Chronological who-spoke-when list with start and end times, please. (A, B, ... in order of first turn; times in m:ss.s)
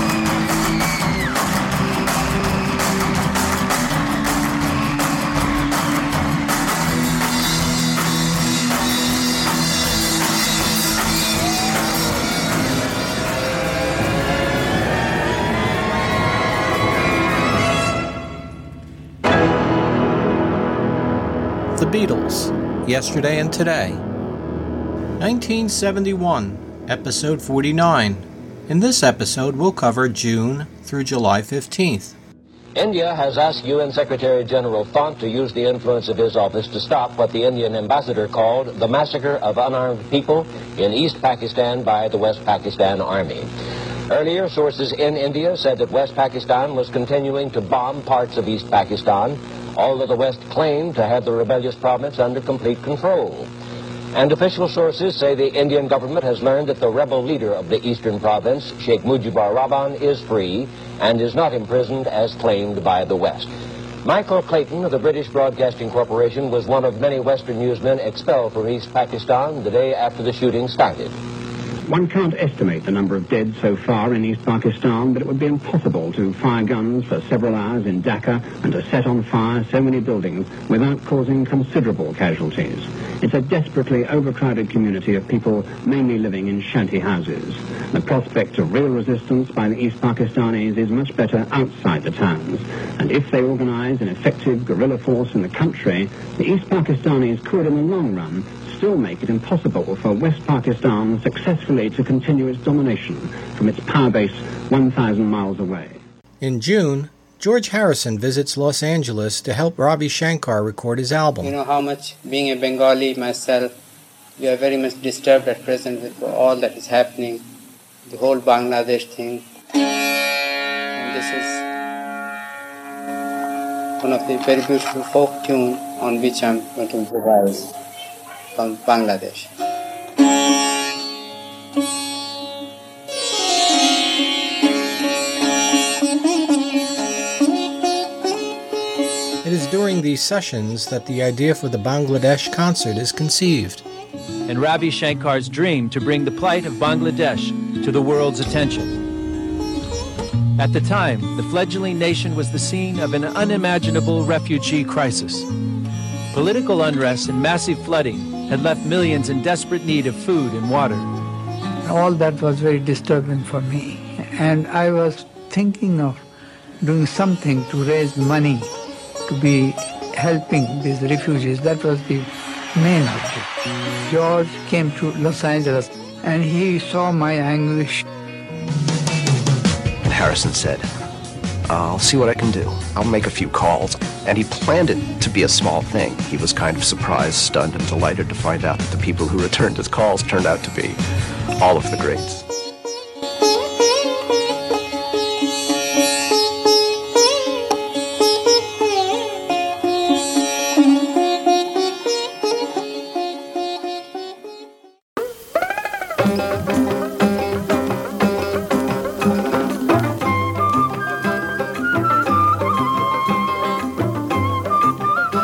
0:21.8-0:24.0 A
0:25.2-0:32.2 A
0:32.8-0:43.5 B
0:44.1-0:53.5 B
0:54.1-1:03.5 B
1:04.0-1:11.2 B
1:11.9-1:46.0 C
1:46.4-1:51.5 A
1:51.4-1:53.7 D
1:54.4-1:57.4 D
1:58.1-1:59.4 D
2:01.0-2:01.6 D
2:04.0-2:07.7 D
2:08.6-2:09.5 D
2:19.4-2:23.8 A
2:24.5-2:29.0 E
2:30.6-2:35.5 E
2:36.3-2:41.1 E
2:41.8-2:46.2 F
2:46.8-2:48.7 F
2:49.3-2:53.4 F
2:54.1-2:58.0 F
3:00.1-3:00.9 G
3:01.7-3:11.0 G
3:11.6-3:12.4 G